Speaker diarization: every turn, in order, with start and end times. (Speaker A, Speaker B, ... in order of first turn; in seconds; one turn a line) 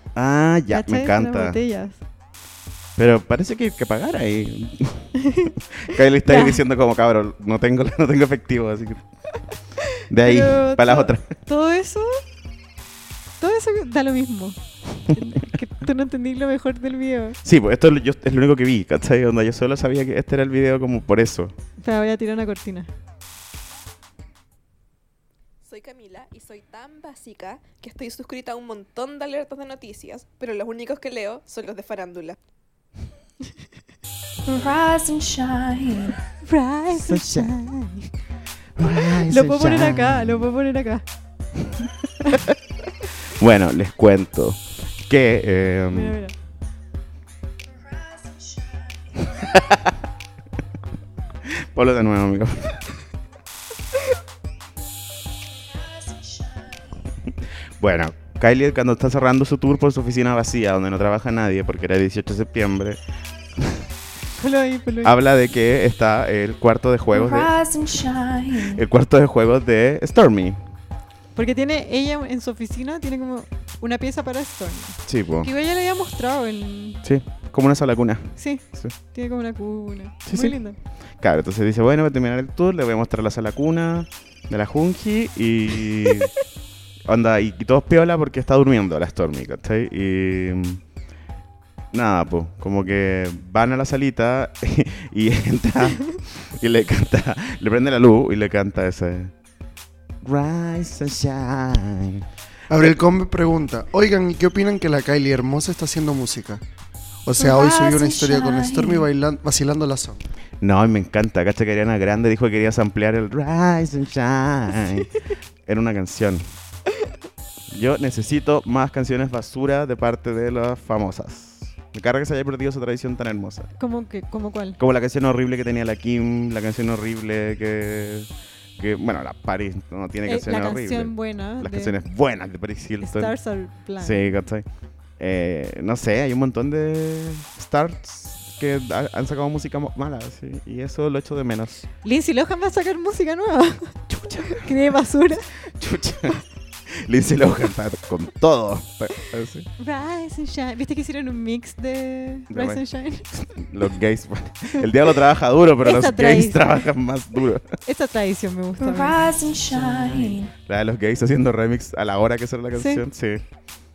Speaker A: 0.2-1.6
Speaker B: 0.7-2.0
Speaker A: 3.0-5.2
Speaker B: 5.2-5.5
Speaker A: 5.8-9.0
Speaker B: 6.2-6.6
Speaker A: 10.1-11.3
Speaker B: 10.1-12.2
Speaker B: 13.4-14.6
Speaker B: 15.1-17.4
Speaker A: 17.4-21.5
Speaker B: 21.8-22.9
Speaker C: 25.6-32.4
Speaker D: 34.5-36.2
Speaker B: 36.4-38.1
Speaker A: 36.9-37.5
Speaker A: 38.8-40.5
Speaker B: 38.8-41.0
Speaker A: 43.3-46.2
Speaker B: 45.9-46.3
Speaker D: 47.7-49.6
Speaker A: 49.4-49.9
Speaker A: 51.7-52.9
Speaker D: 55.5-57.0
Speaker A: 57.8-63.0
Speaker A: 63.6-63.9
Speaker B: 64.4-65.1
Speaker A: 65.0-67.5
Speaker D: 67.1-68.8
Speaker A: 68.7-70.6
Speaker B: 71.4-77.0
Speaker A: 75.1-75.5
Speaker A: 77.0-78.9
Speaker B: 78.4-80.8
Speaker A: 80.3-80.6
Speaker A: 81.2-86.3
Speaker A: 87.1-90.8
Speaker A: 91.9-99.3
Speaker A: 100.2-102.2
Speaker E: 102.7-106.6
Speaker E: 107.2-110.3
Speaker D: 107.4-109.1
Speaker A: 110.6-115.1
Speaker A: 115.7-116.5
Speaker A: 117.7-123.7
Speaker B: 123.8-124.8
Speaker A: 124.8-133.3
Speaker B: 130.3-132.0
Speaker B: 133.0-134.3
Speaker A: 134.0-134.7
Speaker A: 135.2-141.9
Speaker B: 142.0-145.5
Speaker A: 144.1-144.7
Speaker A: 145.7-146.4
Speaker A: 146.9-149.7
Speaker B: 149.8-153.3
Speaker A: 152.5-152.8
Speaker A: 153.3-157.7
Speaker B: 155.8-156.9
Speaker B: 157.8-159.2
Speaker D: 158.8-160.5
Speaker A: 159.7-163.4
Speaker B: 162.8-163.0